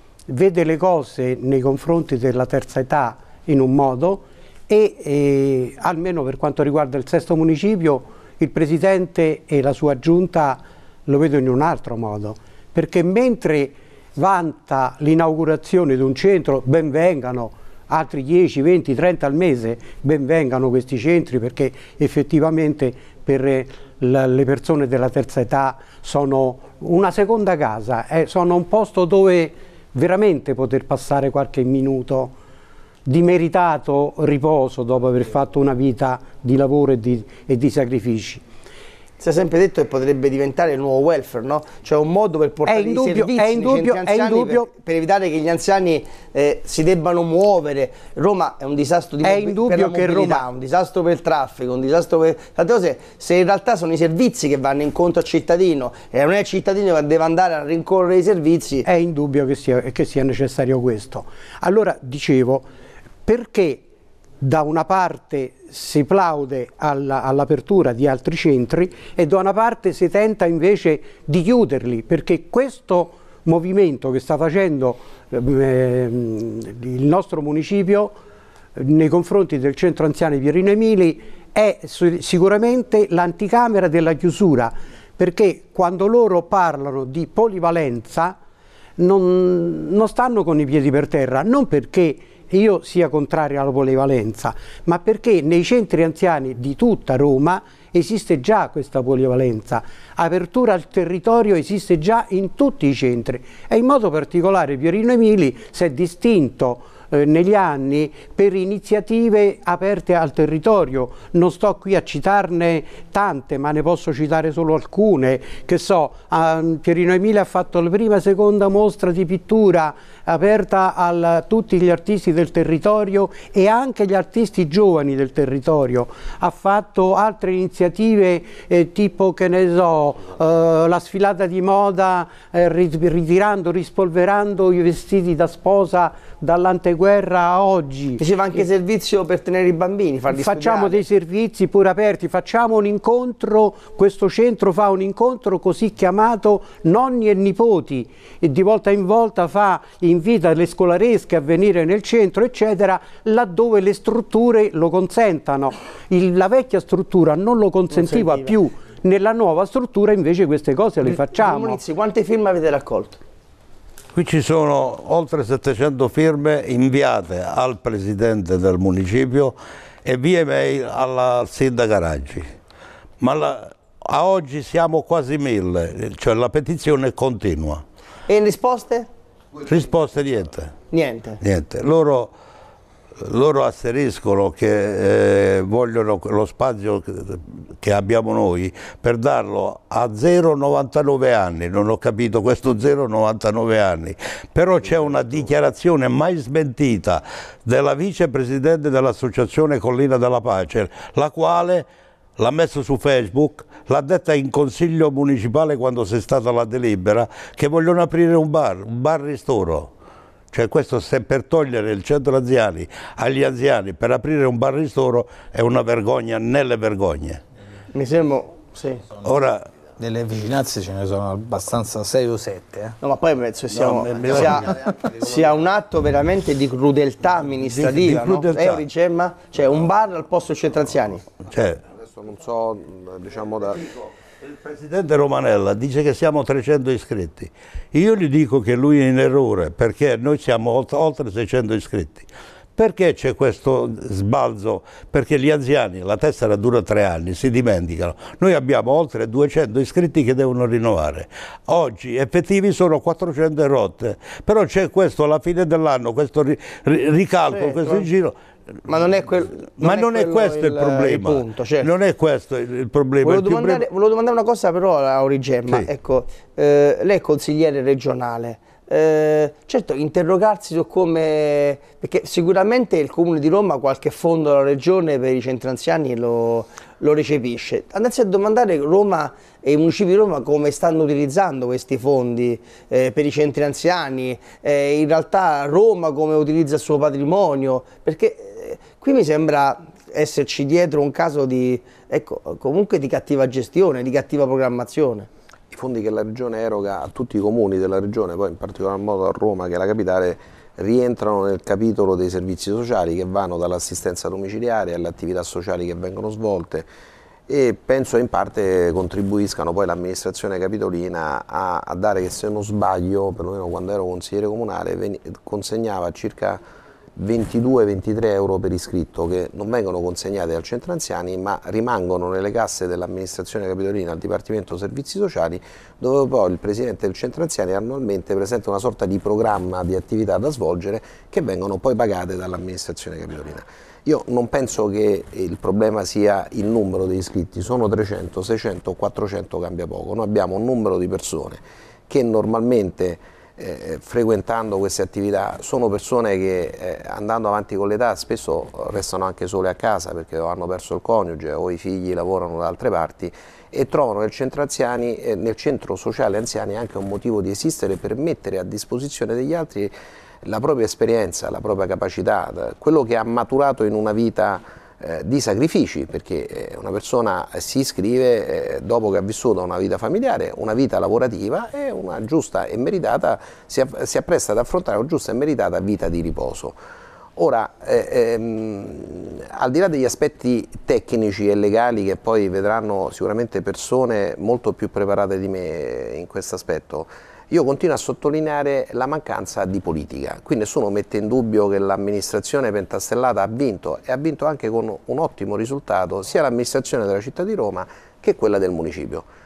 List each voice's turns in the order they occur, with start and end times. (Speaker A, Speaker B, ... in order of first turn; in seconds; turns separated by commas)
Speaker A: 0.3-32.4, Speaker A: 33.0-38.4, Speaker B: 39.2-58.9, Speaker A: 42.7-44.7, Speaker A: 49.2-50.5, Speaker A: 58.9-62.7, Speaker A: 63.2-63.9, Speaker A: 64.4-78.2, Speaker A: 78.8-88.4, Speaker A: 89.0-138.2, Speaker B: 138.2-141.0, Speaker A: 140.3-161.8, Speaker B: 157.9-158.5, Speaker B: 161.1-163.2, Speaker C: 164.1-172.5, Speaker C: 173.2-177.8, Speaker B: 178.3-179.1, Speaker C: 179.7-180.7, Speaker B: 180.9-181.4, Speaker C: 181.4-182.3, Speaker C: 183.2-201.9, Speaker C: 202.4-209.9, Speaker C: 210.5-217.4, Speaker B: 217.9-219.1, Speaker C: 219.2-219.7, Speaker D: 220.0-223.0, Speaker B: 223.0-231.2, Speaker C: 223.7-224.8, Speaker C: 227.4-228.8, Speaker C: 231.5-231.8, Speaker E: 231.9-233.9, Speaker C: 234.4-258.4, Speaker B: 257.5-258.1, Speaker B: 258.9-261.9, Speaker C: 259.7-263.9, Speaker B: 263.2-295.3, Speaker E: 295.7-306.9, Speaker E: 307.5-316.6, Speaker E: 317.1-376.8, Speaker E: 377.4-399.3